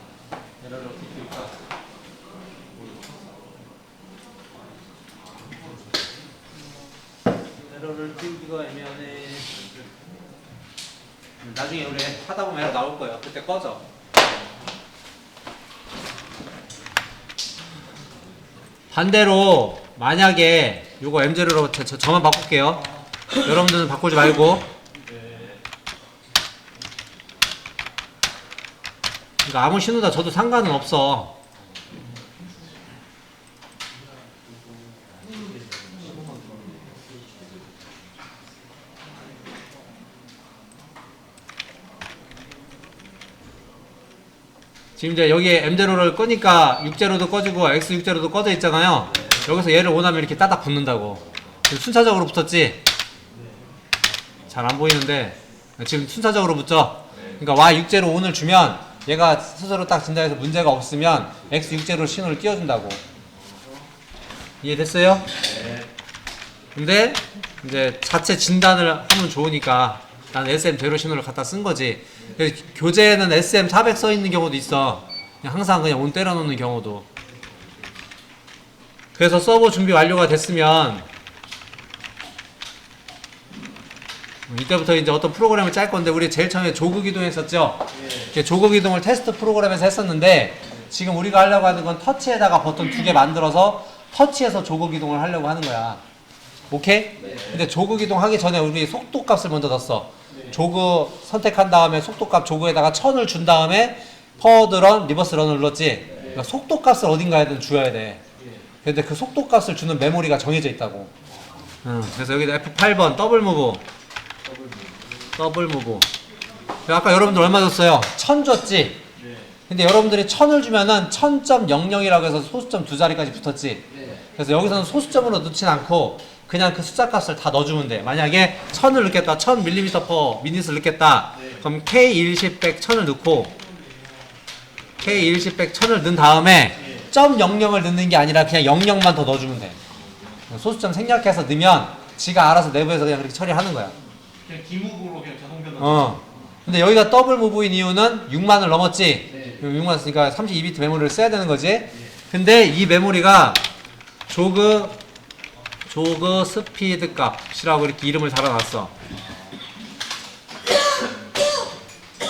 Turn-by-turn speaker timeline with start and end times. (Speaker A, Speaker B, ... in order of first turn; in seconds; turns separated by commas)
Speaker A: 0.6-1.5, Speaker B: 2.7-3.2, Speaker A: 7.6-9.5, Speaker A: 11.4-13.8, Speaker A: 18.9-24.6, Speaker B: 25.1-25.5, Speaker A: 29.4-31.4, Speaker B: 35.3-37.2, Speaker A: 45.0-52.8, Speaker A: 54.5-63.0, Speaker A: 64.6-65.3, Speaker B: 65.5-65.8, Speaker A: 66.7-77.0, Speaker A: 79.1-81.0, Speaker A: 84.5-96.0, Speaker B: 87.9-88.3, Speaker A: 96.7-108.2, Speaker B: 97.2-97.6, Speaker B: 100.3-100.6, Speaker B: 106.1-106.4, Speaker B: 108.3-108.7, Speaker A: 108.8-111.1, Speaker A: 111.8-113.8, Speaker B: 114.4-115.2, Speaker A: 115.3-116.1, Speaker A: 116.8-119.0, Speaker B: 119.1-119.5, Speaker A: 119.7-133.5, Speaker B: 123.9-124.2, Speaker B: 131.3-131.6, Speaker A: 135.0-139.8, Speaker B: 136.8-137.1, Speaker A: 140.5-143.9, Speaker B: 144.4-146.4, Speaker A: 145.8-153.6, Speaker B: 149.3-149.6, Speaker A: 154.3-155.0, Speaker A: 155.9-158.9